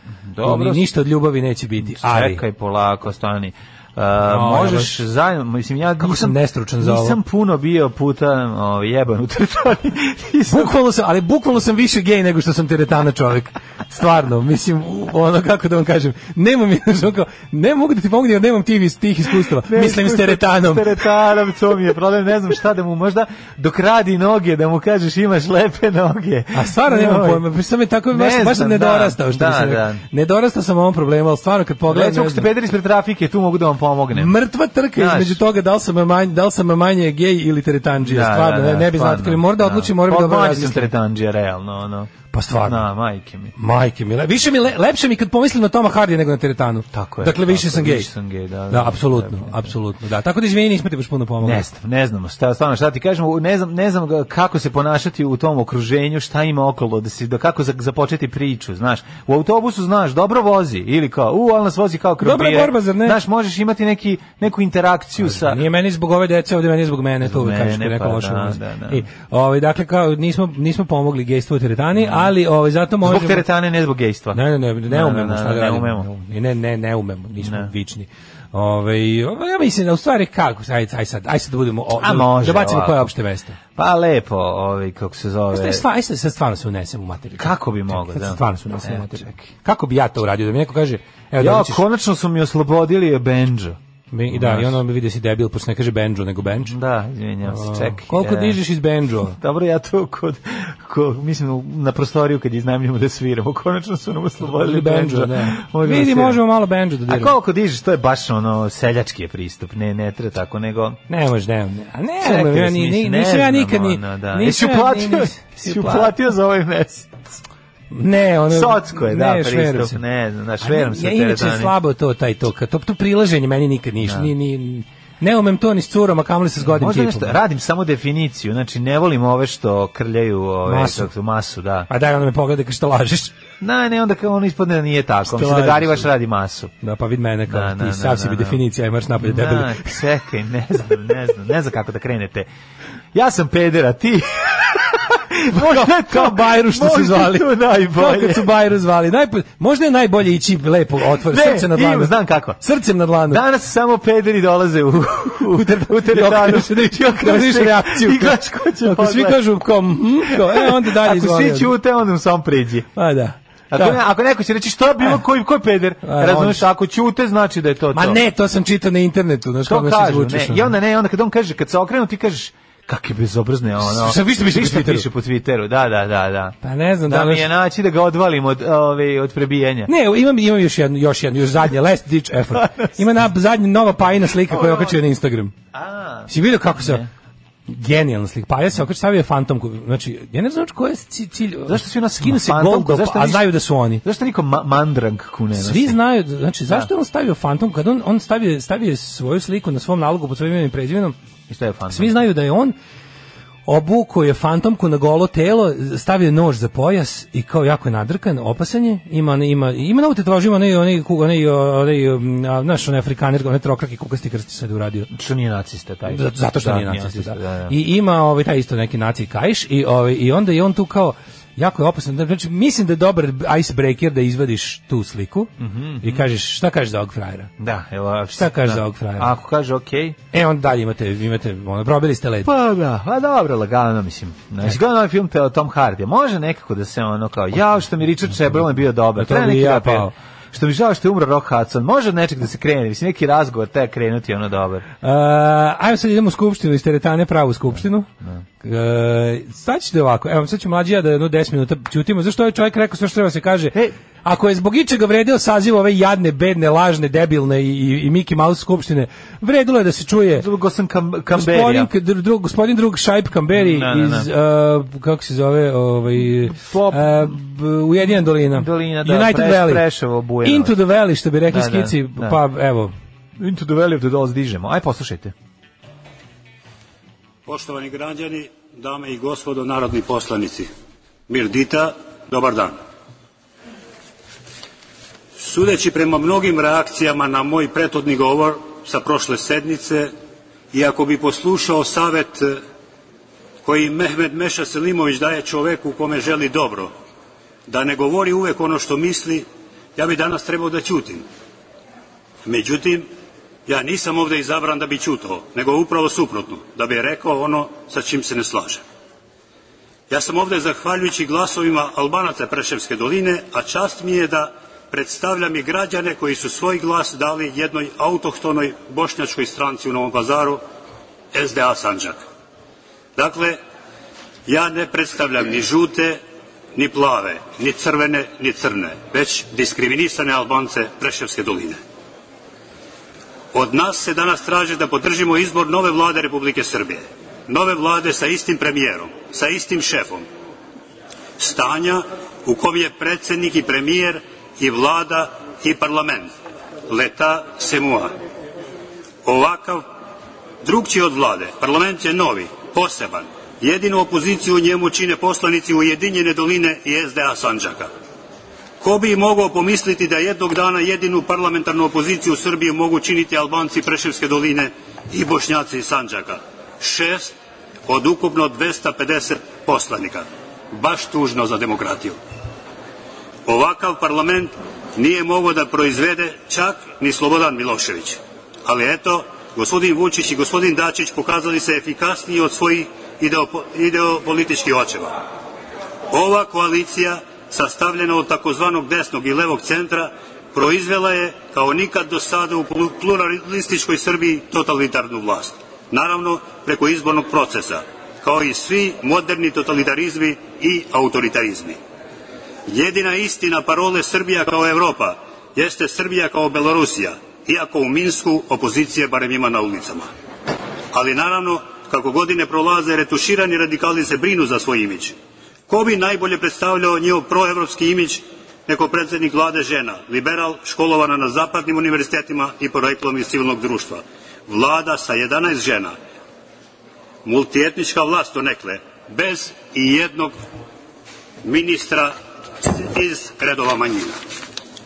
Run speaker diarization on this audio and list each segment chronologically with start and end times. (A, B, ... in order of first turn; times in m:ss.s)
0:00.3-0:00.9 A
0:00.4-0:02.4 B
0:01.9-0:10.7 A
0:04.2-0:05.0 B
0:06.0-0:07.2 B
0:10.5-0:21.1 B
0:19.6-0:27.4 A
0:26.5-0:32.5 B
0:28.1-0:30.0 A
0:31.9-0:34.3 A
0:34.1-0:40.9 B
0:34.9-0:35.4 A
0:38.0-0:42.1 A
0:42.3-0:42.8 B
0:42.6-0:43.5 A
0:43.6-0:48.1 B
0:46.9-0:49.7 A
0:48.7-0:51.6 B
0:51.4-1:05.6 A
1:02.2-1:03.2 B
1:05.2-1:13.5 B
1:07.2-1:09.0 A
1:12.0-1:12.3 A
1:13.0-1:16.1 A
1:14.3-1:23.6 B
1:17.4-1:17.7 A
1:22.0-1:23.1 A
1:23.7-1:25.8 A
1:25.5-1:31.8 B
1:27.4-1:29.5 A
1:31.4-1:33.8 A
1:34.1-1:36.8 B
1:34.3-1:34.8 A
1:36.6-1:38.6 A
1:37.4-1:39.4 B
1:39.4-1:46.4 A
1:44.4-1:47.3 B
1:47.1-1:51.0 A
1:51.1-1:56.2 B
1:52.2-1:57.3 A
1:57.9-2:00.0 B
1:58.5-2:01.7 A
2:00.6-2:07.4 B
2:04.0-2:04.3 A
2:06.6-2:11.9 A
2:10.6-2:11.1 B
2:11.9-2:13.4 B
2:13.6-2:16.7 A
2:15.2-2:16.1 B
2:16.8-2:20.0 B
2:17.5-2:18.6 A
2:19.2-2:22.5 A
2:23.1-2:28.5 A
2:25.5-2:33.4 B
2:31.3-2:32.6 A
2:33.3-2:39.4 A
2:35.4-2:41.7 B
2:40.3-2:42.9 A
2:43.0-2:44.0 B
2:43.7-2:48.2 A
2:46.0-2:46.6 B
2:47.9-2:50.7 B
2:49.6-2:59.9 A
2:53.8-2:55.1 B
2:56.6-2:57.5 B
2:59.9-3:05.5 B
3:04.5-3:05.0 A
3:05.7-3:07.1 A
3:06.3-3:07.0 B
3:07.7-3:14.0 B
3:11.7-3:13.5 A
3:14.0-3:16.0 A
3:15.5-3:21.2 B
3:21.5-3:22.2 A
3:21.9-3:22.8 B
3:23.6-3:35.1 B
3:35.1-3:37.7 A
3:36.1-3:47.5 B
3:45.6-3:46.2 A
3:47.6-3:50.2 A
3:48.3-3:49.3 B
3:50.3-3:52.5 B
3:52.4-4:04.9 A
3:59.2-4:00.1 B
4:05.0-4:20.5 B
4:20.4-4:21.9 A
4:21.3-4:29.8 B
4:23.5-4:24.3 A
4:26.5-4:27.3 A
4:28.5-4:30.8 A
4:30.4-4:32.9 B
4:31.5-4:32.4 A
4:33.4-4:35.3 A
4:37.4-4:40.7 C
4:41.3-4:42.8 C
4:45.4-4:50.1 C
4:50.7-4:52.6 C
4:53.6-4:56.9 C
4:57.7-5:01.2 C
5:02.4-5:03.1 C
5:03.6-5:08.8 C
5:10.1-5:20.6 C
5:21.3-5:22.2 C
5:23.2-5:23.6 C
5:24.5-5:26.2 C
5:26.7-5:31.8 C
5:33.5-5:40.2 C
5:41.4-5:46.3 C
5:46.9-5:48.1 C
5:49.2-5:49.8 C
5:50.6-5:57.9 C
5:58.8-6:07.3 C
6:07.9-6:12.2 C
6:13.4-6:25.2 C
6:26.1-6:41.8 C
6:42.7-6:50.1 C
6:50.9-6:55.2 C
6:55.7-7:06.0 C
7:07.2-7:10.3 C
7:11.4-7:14.2 C